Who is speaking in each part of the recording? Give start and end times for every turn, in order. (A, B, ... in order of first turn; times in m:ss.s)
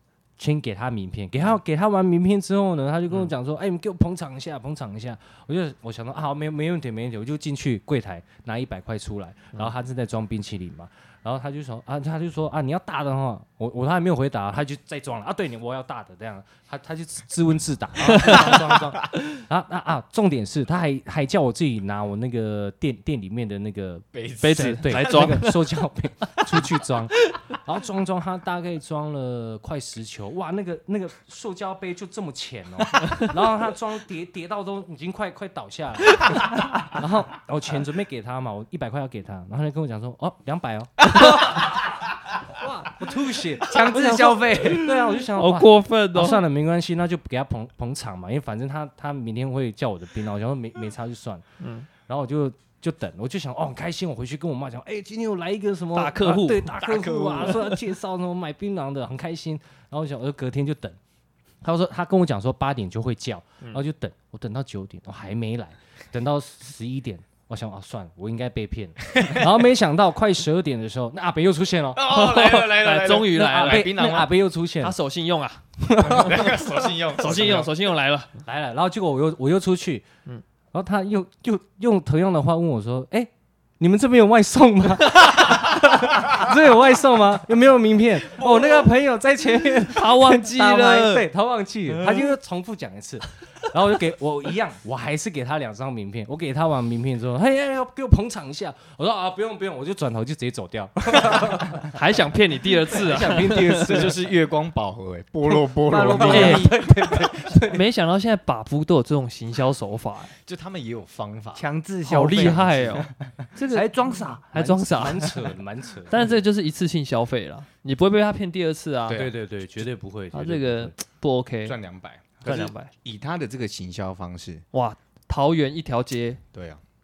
0:00.4-0:41.8 A
0:18.1-0:18.6 B
0:18.2-0:18.5 C
0:24.1-0:25.5 C
0:24.4-0:25.6 B
0:42.5-0:51.4 A
0:43.7-0:44.9 D
0:45.3-0:46.4 B
0:51.6-0:51.9 B
0:52.1-1:01.0 A
0:56.0-0:56.7 B
0:56.8-0:57.8 C
1:01.6-1:12.0 A
1:11.9-1:14.3 C
1:12.1-1:13.9 B
1:13.4-1:15.0 A
1:14.8-1:16.3 B
1:15.8-1:17.6 A
1:16.0-1:17.7 C
1:17.2-1:18.3 B
1:18.5-1:20.0 A
1:20.7-1:41.9 A
1:29.9-1:31.3 B
1:41.9-1:44.0 B
1:43.0-1:44.2 A
1:43.3-1:47.1 C
1:45.9-1:47.5 D
1:46.2-1:46.7 B
1:46.4-1:47.5 A
1:47.6-1:50.3 B
1:50.4-1:51.7 C
1:51.5-1:54.5 D
1:52.1-1:55.4 B
1:52.3-1:52.7 C
1:54.5-1:56.4 A
1:56.1-1:59.2 B
1:59.1-1:59.8 C
1:59.1-2:00.9 A
2:00.3-2:01.8 B
2:01.7-2:04.6 C
2:02.4-2:02.9 B
2:04.7-2:06.4 B
2:06.5-2:06.8 C